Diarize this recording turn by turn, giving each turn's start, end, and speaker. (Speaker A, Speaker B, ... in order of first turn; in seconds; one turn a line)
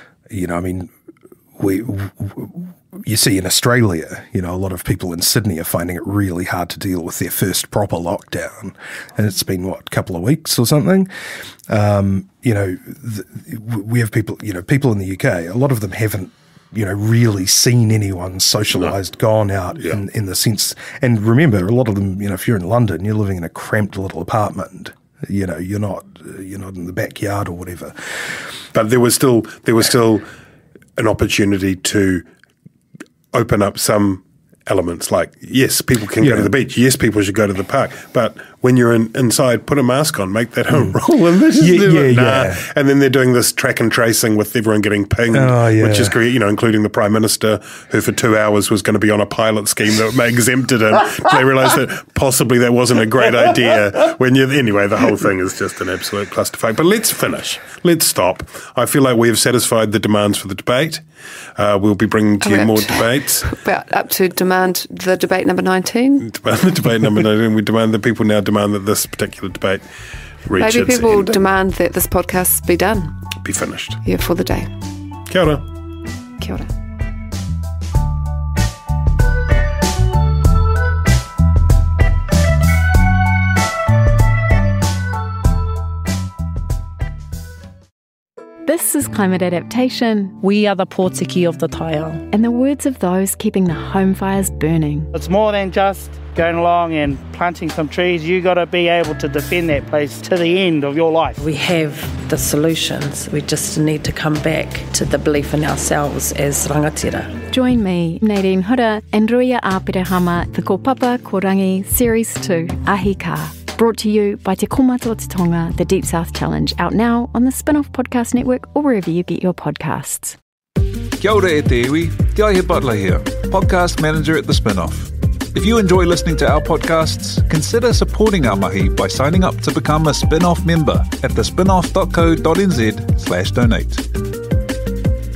Speaker A: 0.3-0.9
Speaker A: 1.6-11.1
Speaker A: 11.7-27.9
Speaker B: 28.7-30.3
Speaker B: 30.9-32.2
Speaker B: 33.3-61.0
Speaker A: 36.2-36.5
Speaker A: 40.7-41.0
Speaker A: 41.6-42.6
Speaker A: 45.3-46.1
Speaker B: 61.5-63.5
Speaker C: 62.4-66.3
Speaker B: 66.2-69.8
Speaker B: 70.4-71.4
Speaker C: 70.6-73.1
Speaker B: 73.4-74.0
Speaker C: 74.0-74.7
Speaker B: 75.3-75.6
Speaker C: 76.4-76.7
Speaker D: 88.7-95.1
Speaker E: 95.1-101.4
Speaker F: 101.4-107.4
Speaker D: 107.5-120.3
Speaker G: 121.2-134.0